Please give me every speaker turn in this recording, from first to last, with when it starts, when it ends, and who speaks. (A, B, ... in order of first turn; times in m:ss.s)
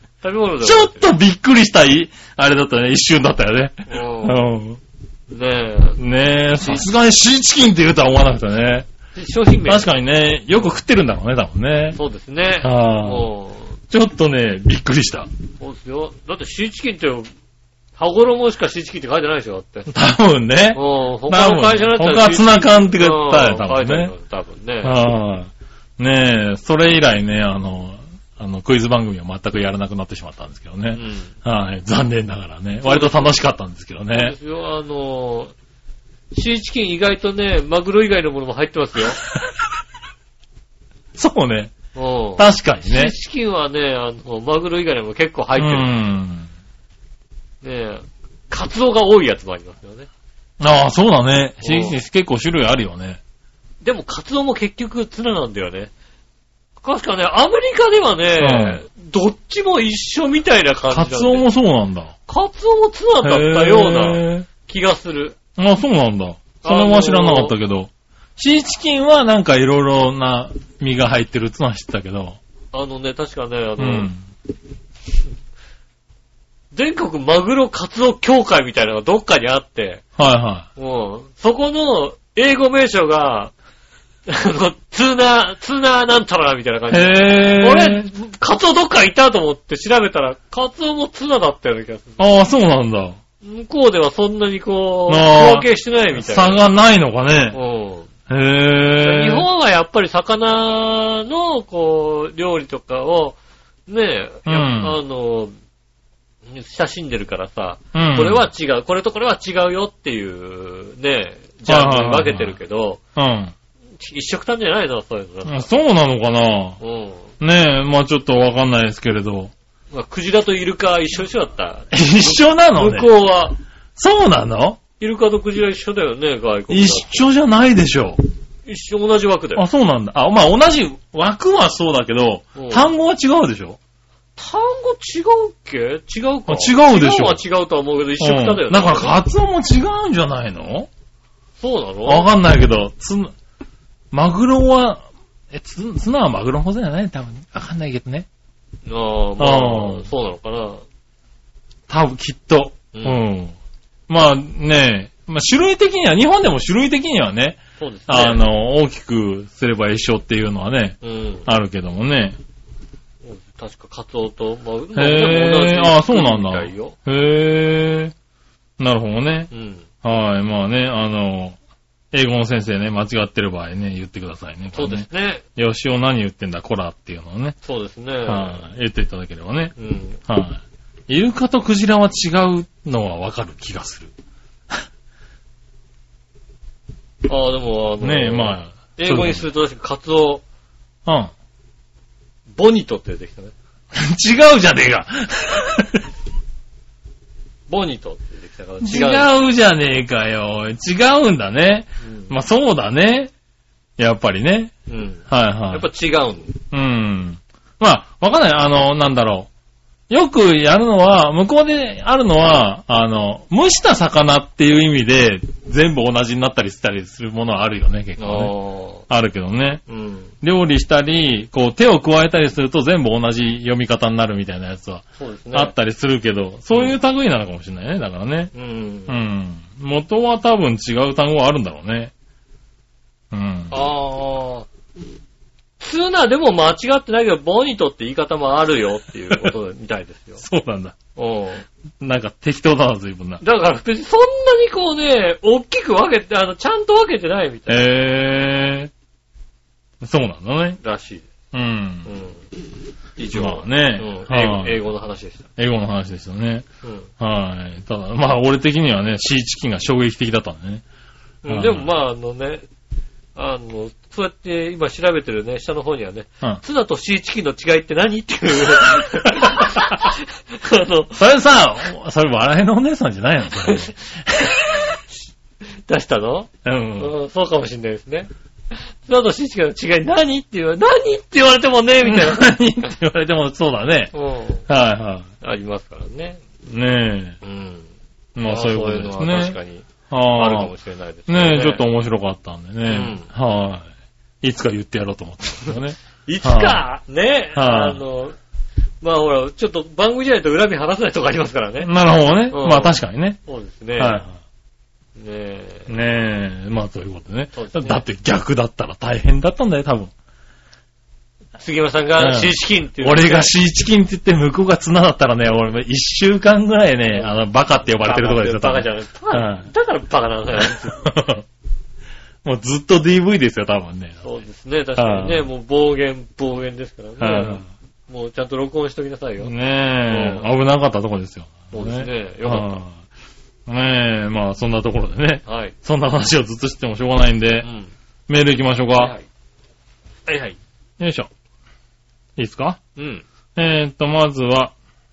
0:00.2-0:01.1 A
0:00.6-0:04.8 B
0:03.9-0:04.5 A
0:05.3-0:06.0 A
0:06.0-0:08.9 B
0:06.6-0:06.9 A
0:09.2-0:09.9 A
0:09.7-0:12.0 B
0:12.0-0:13.8 A
0:12.6-0:13.3 B
0:13.9-0:15.3 B
0:15.6-0:17.3 A
0:18.0-0:19.9 A
0:19.9-0:24.1 B
0:20.8-0:25.0 A
0:24.8-0:34.4 B
0:30.9-0:31.3 A
0:32.8-0:33.4 A
0:34.1-0:35.5 A
0:36.3-0:39.2 A
0:41.2-0:41.8 B
0:42.0-0:45.9 A
0:42.4-0:43.1 B
0:45.6-0:46.5 B
0:47.6-0:50.1 A
0:50.6-0:53.2 B
0:51.6-0:52.0 A
0:53.8-0:55.9 A
0:56.8-1:01.5 A
0:58.4-0:58.8 B
1:00.9-1:02.1 B
1:02.3-1:05.4 A
1:03.2-1:04.5 B
1:05.6-1:12.4 B
1:06.6-1:07.5 A
1:12.7-1:14.1 A
1:13.8-1:14.2 B
1:16.7-1:20.0 A
1:20.2-1:20.7 B
1:20.8-1:23.5 A
1:24.3-1:32.2 A
1:26.9-1:28.1 B
1:32.2-1:33.2 B
1:33.4-1:36.6 A
1:35.1-1:37.6 B
1:37.5-1:38.1 A
1:38.3-1:39.5 B
1:39.0-1:45.5 A
1:44.5-1:45.0 B
1:46.5-1:53.0 A
1:47.9-1:48.5 B
1:51.7-1:52.6 B
1:53.2-1:53.5 B
1:54.0-1:55.7 A
1:55.5-1:56.8 B
1:56.8-1:57.3 A
1:57.4-1:59.5 B
1:59.9-2:03.6 A
2:01.9-2:03.1 B
2:04.0-2:04.8 B
2:05.0-2:07.3 A
2:06.7-2:08.2 B
2:08.7-2:09.6 A
2:09.6-2:13.8 B
2:12.6-2:12.9 A
2:14.4-2:19.2 A
2:16.5-2:17.4 B
2:18.2-2:20.9 B
2:21.6-2:22.3 A
2:22.0-2:23.3 B
2:24.1-2:28.3 B
2:28.8-2:30.8 A
2:29.4-2:30.1 B
2:31.9-2:33.6 B
2:32.9-2:33.2 A
2:34.1-2:42.4 B
2:37.8-2:38.4 A
2:41.0-2:41.5 A
2:43.2-2:47.0 A
2:45.0-2:48.1 B
2:48.8-2:49.5 B
2:49.5-2:49.9 A
2:50.0-2:51.6 B
2:52.1-2:57.6 B
2:54.7-2:55.4 A
2:57.6-2:58.7 A
2:58.3-2:59.7 B
2:59.8-3:00.2 A
3:00.3-3:04.1 B
3:07.3-3:10.4 A
3:08.0-3:09.5 B
3:11.1-3:11.3 B
3:12.6-3:13.5 A
3:13.9-3:16.0 B
3:17.7-3:19.3 A
3:18.8-3:23.3 B
3:22.0-3:22.3 A
3:24.0-3:24.7 B
3:24.9-3:26.6 A
3:25.3-3:25.9 B
3:26.7-3:29.5 B
3:30.1-3:38.5 B
3:38.2-3:39.0 A
3:39.1-3:39.8 B
3:39.9-3:40.3 A
3:40.4-3:48.5 B
3:45.2-3:45.7 A
3:48.5-3:49.2 A
3:49.1-3:52.1 B
3:53.3-3:53.8 B
3:53.7-3:54.7 A
3:55.8-4:00.4 A
4:00.4-4:01.0 B
4:01.2-4:01.7 A
4:02.0-4:03.4 B
4:03.4-4:07.9 A
4:07.7-4:08.9 B
4:10.0-4:10.8 B
4:10.8-4:11.3 A
4:11.5-4:12.1 B
4:12.1-4:12.4 A
4:13.2-4:15.5 A
4:13.3-4:14.8 B
4:15.6-4:16.7 B
4:16.8-4:17.1 A
4:17.2-4:20.8 B
4:21.4-4:22.6 A
4:21.5-4:21.9 B
4:23.4-4:31.2 A
4:29.3-4:29.8 B
4:31.1-4:34.0 B
4:33.6-4:34.9 A
4:35.9-4:42.5 A
4:36.6-4:37.1 B
4:42.0-4:44.1 B
4:44.1-4:44.7 A
4:44.7-4:45.3 B
4:45.4-4:46.4 A
4:46.7-4:47.4 B
4:47.4-4:47.9 A
4:48.4-4:49.6 B
4:48.4-4:51.8 A
4:50.1-4:50.7 B
4:51.3-4:53.9 B
4:52.9-4:53.3 A
4:54.4-4:56.8 B
4:56.2-4:58.4 A
4:57.6-4:58.0 B
4:59.0-5:01.9 A
5:01.8-5:03.4 B
5:02.5-5:04.2 A
5:04.0-5:04.3 B
5:05.2-5:06.0 A
5:05.9-5:10.1 B
5:07.5-5:08.0 A
5:11.6-5:13.5 A
5:12.2-5:19.7 B
5:18.0-5:21.0 A
5:20.9-5:21.4 B
5:22.4-5:24.3 B
5:24.2-5:29.5 A
5:25.0-5:25.5 B
5:27.2-5:27.7 B
5:29.4-5:33.0 B
5:30.1-5:30.5 A
5:31.7-5:32.8 A
5:33.7-5:37.7 B
5:35.5-5:35.8 A
5:37.6-5:37.9 A
5:38.3-5:39.2 B
5:39.0-5:39.3 A
5:40.3-5:40.6 A
5:41.0-5:41.3 B
5:42.4-5:42.8 B
5:43.0-5:43.2 A
5:43.6-5:44.7 B